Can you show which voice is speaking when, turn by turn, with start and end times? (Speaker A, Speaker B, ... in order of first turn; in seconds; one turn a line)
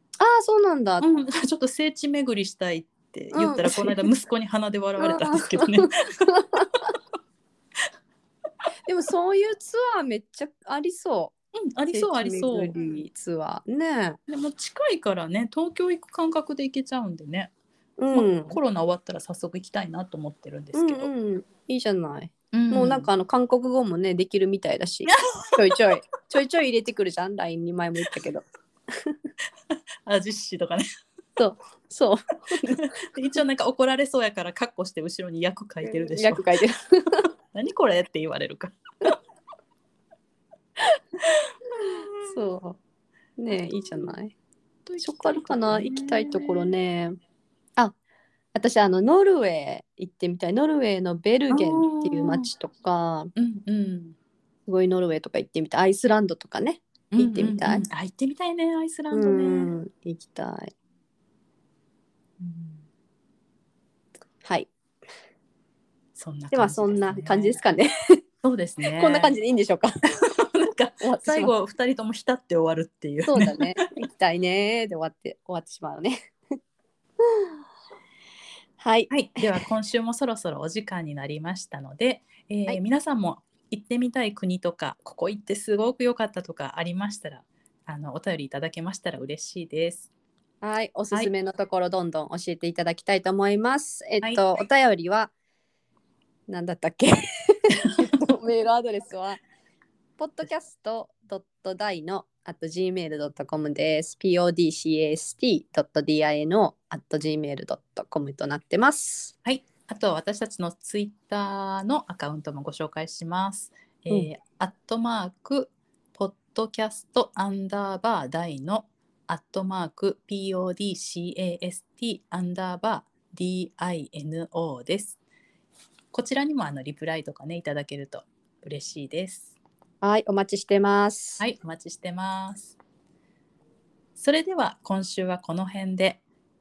Speaker A: 0.2-1.0
Speaker B: 1.0-6.3
Speaker A: 3.3-4.1
Speaker A: 5.0-6.7
Speaker A: 8.8-11.3
Speaker B: 11.6-12.8
Speaker A: 11.9-14.2
Speaker B: 14.3-17.5
Speaker A: 18.0-18.6
Speaker B: 18.1-21.1
Speaker A: 20.7-29.2
Speaker B: 22.5-23.1
Speaker B: 25.1-25.8
Speaker B: 29.7-30.8
Speaker A: 31.4-32.9
Speaker B: 32.6-36.5
Speaker A: 35.8-37.2
Speaker B: 37.5-39.2
Speaker B: 41.7-42.4
Speaker A: 42.2-42.8
Speaker A: 43.4-44.3
Speaker B: 44.9-46.7
Speaker A: 45.0-47.1
Speaker A: 48.5-53.3
Speaker B: 51.5-52.5
Speaker B: 53.4-54.1
Speaker A: 54.6-57.8
Speaker B: 57.1-59.7
Speaker A: 59.1-60.7
Speaker A: 62.4-62.7
Speaker A: 64.4-64.7
Speaker B: 66.2-67.5
Speaker A: 66.5-68.2
Speaker B: 68.4-69.3
Speaker A: 68.9-69.9
Speaker B: 70.1-73.8
Speaker A: 71.0-71.5
Speaker A: 73.3-76.3
Speaker A: 77.2-77.5
Speaker A: 78.8-79.5
Speaker B: 79.1-90.1
Speaker A: 90.6-95.3
Speaker A: 96.5-99.4
Speaker B: 97.8-98.1
Speaker A: 100.2-109.3
Speaker B: 109.4-125.2
Speaker B: 126.1-129.5
Speaker A: 130.0-131.4
Speaker B: 131.4-132.8
Speaker B: 134.2-136.2